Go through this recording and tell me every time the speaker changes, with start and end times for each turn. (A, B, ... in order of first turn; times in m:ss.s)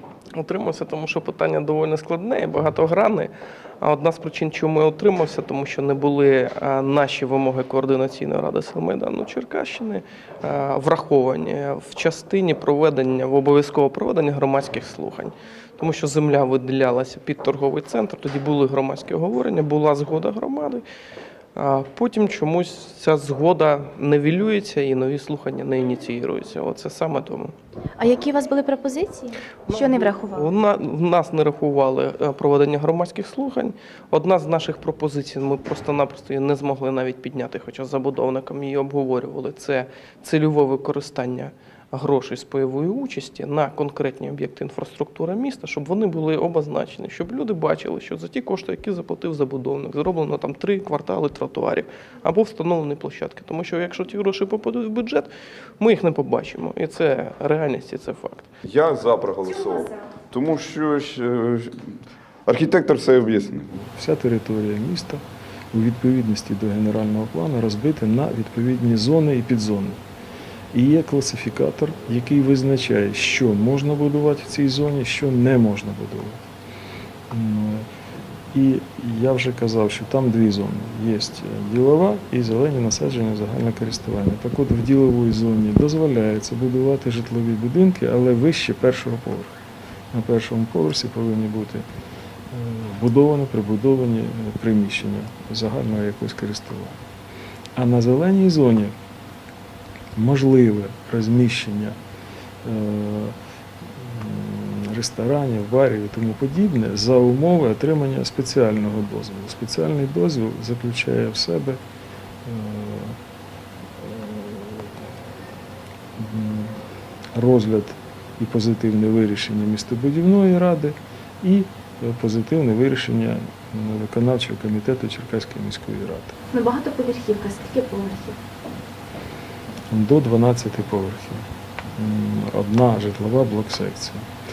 0:00.4-0:20.8 A
0:21.6-0:27.6 A
0:28.0-0:30.4 B
0:29.7-0:58.5 A
0:58.7-1:01.7 C
1:02.5-1:03.7 C
1:03.9-1:10.0 D
1:10.7-1:16.4 D
1:17.3-1:17.9 D
1:18.5-1:29.6 D
1:30.1-1:31.9 D
1:32.5-1:37.0 D
1:37.8-1:39.0 D
1:40.2-1:42.0 D
1:42.6-1:51.8 D
1:52.4-1:53.2 D
1:54.0-1:54.9 D
1:56.2-1:56.8 D
1:57.4-2:06.4 D
2:06.5-2:08.4 B
2:09.9-2:14.3 D